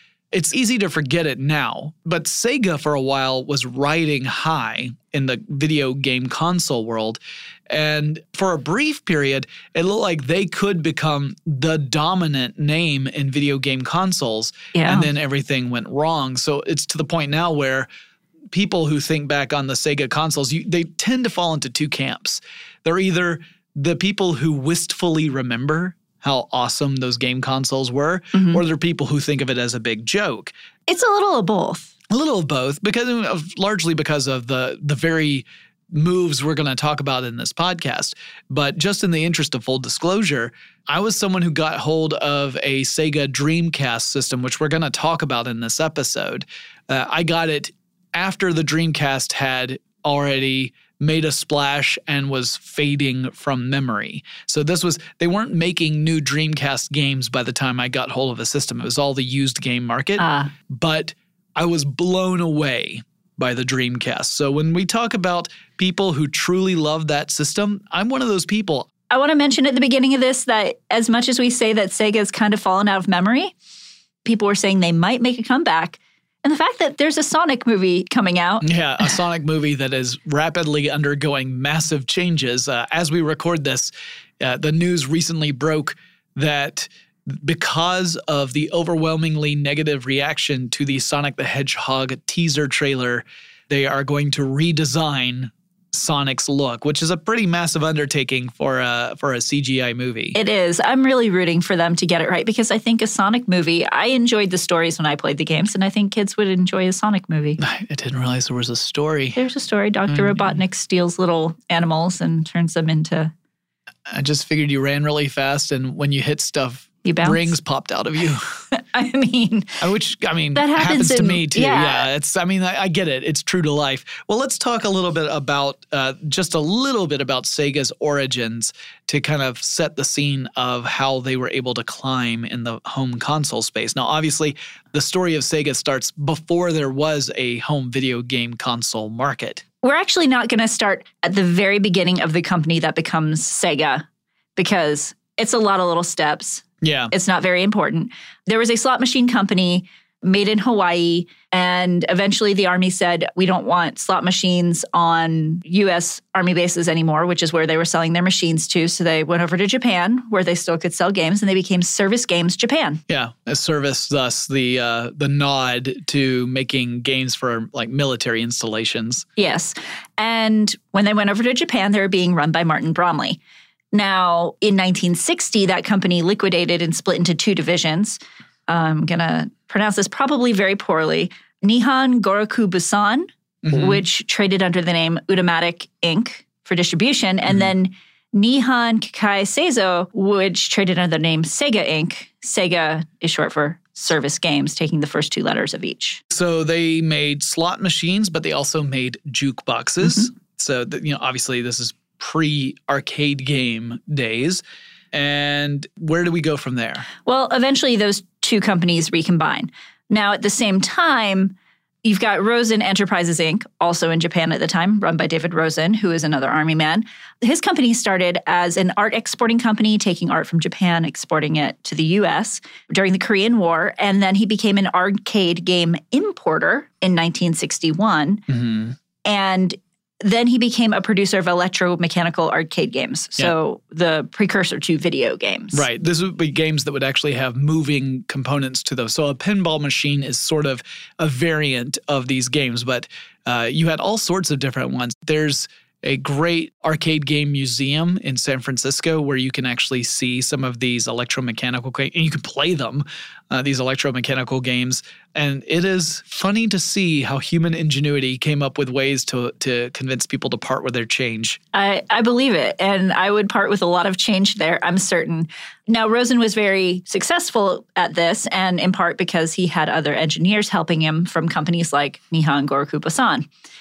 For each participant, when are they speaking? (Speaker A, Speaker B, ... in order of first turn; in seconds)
Speaker A: 0.3-17.9, 18.5-30.5, 32.1-68.9, 78.6-100.4, 107.6-109.4, 110.1-110.6, 114.1-118.6, 119.8-139.6, 146.8-147.1, 163.1-169.2, 183.6-184.0, 196.3-207.1, 228.5-229.0, 235.7-261.6
Speaker B: 14.8-15.1, 28.3-28.6, 30.9-31.9, 60.2-60.5, 69.1-73.5, 74.2-79.2, 100.3-107.6, 109.4-113.3, 117.0-117.5, 118.7-119.8, 120.5-122.1, 139.8-144.1, 144.6-163.0, 169.4-173.4, 173.9-196.2, 207.2-228.4, 229.2-235.9, 261.7-273.5